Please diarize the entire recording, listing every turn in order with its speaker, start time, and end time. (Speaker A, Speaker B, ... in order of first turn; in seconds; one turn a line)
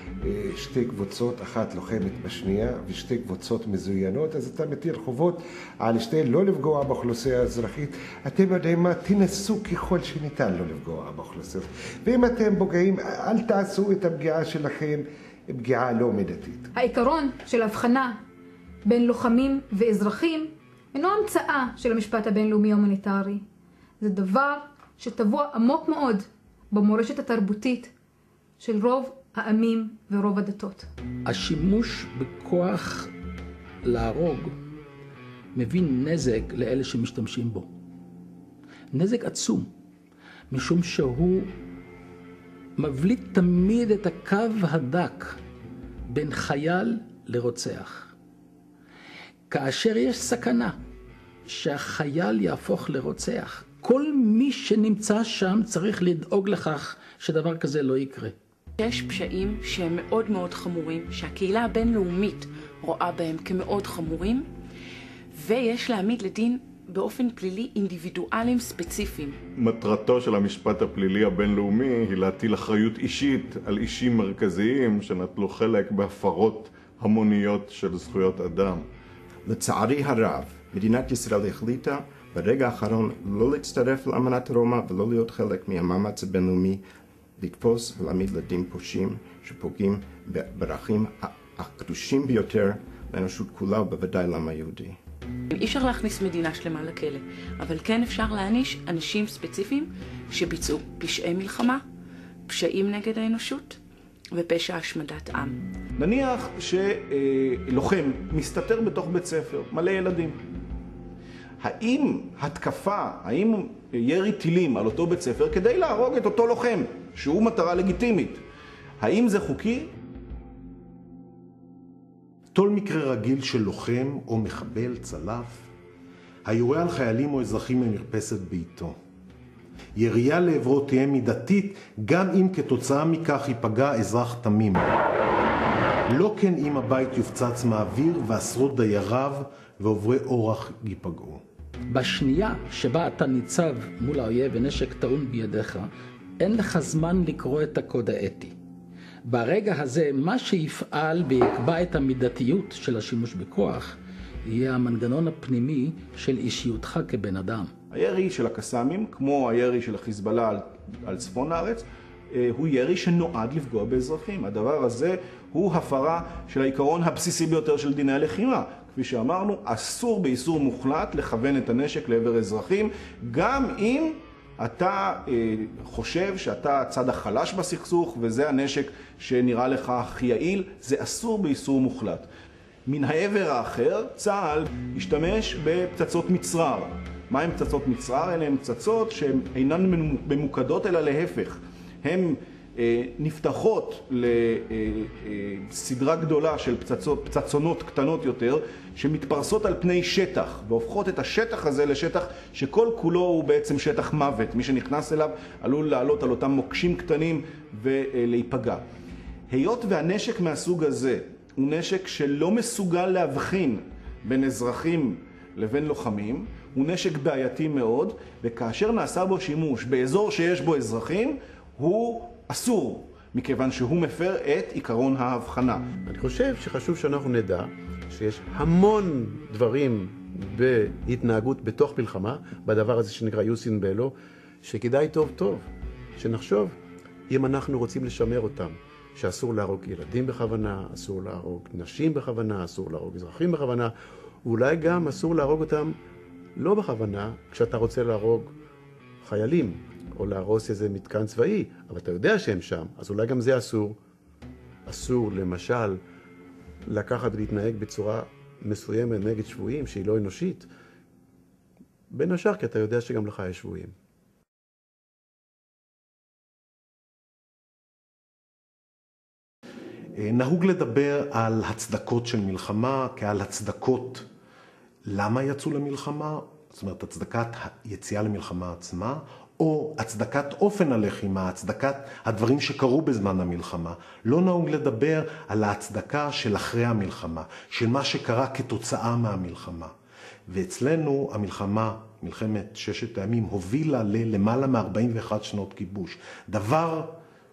Speaker A: 0.2-2.4
Speaker B: 0.8-15.0
Speaker A: 3.7-4.3
Speaker B: 15.5-16.6
Speaker C: 16.7-18.1
Speaker C: 18.9-23.4
Speaker C: 24.0-27.9
Speaker C: 28.6-30.9
Speaker D: 31.3-33.1
Speaker D: 33.8-34.5
Speaker D: 35.5-37.7
Speaker D: 38.9-39.7
Speaker D: 40.5-41.5
Speaker D: 42.8-45.4
Speaker D: 46.1-48.1
Speaker D: 49.5-50.8
Speaker D: 51.5-58.4
Speaker E: 58.8-64.5
Speaker E: 65.3-69.4
Speaker F: 69.6-78.9
Speaker G: 79.5-86.8
Speaker G: 87.4-95.0
Speaker E: 95.5-101.8
Speaker E: 102.5-103.8
Speaker E: 104.3-105.6
Speaker H: 106.0-110.4
Speaker H: 111.6-118.4
Speaker H: 119.0-119.9
Speaker A: 122.5-125.7
Speaker A: 126.5-128.9
Speaker A: 130.0-134.9
Speaker A: 136.1-141.4
Speaker D: 141.9-145.9
Speaker D: 146.4-148.5
Speaker D: 149.3-154.0
Speaker D: 154.5-157.7
Speaker H: 157.9-182.3
Speaker H: 182.9-208.8
Speaker H: 209.5-225.8
Speaker I: 226.1-236.8
Speaker I: 237.3-243.9
Speaker I: 244.4-245.9
Speaker I: 246.6-248.5
Speaker I: 249.2-254.0
Speaker I: 254.9-256.0
Speaker I: 256.9-260.7
Speaker I: 262.1-263.9
Speaker A: 270.2-274.2
Speaker A: 275.1-289.9
Speaker A: 290.5-297.2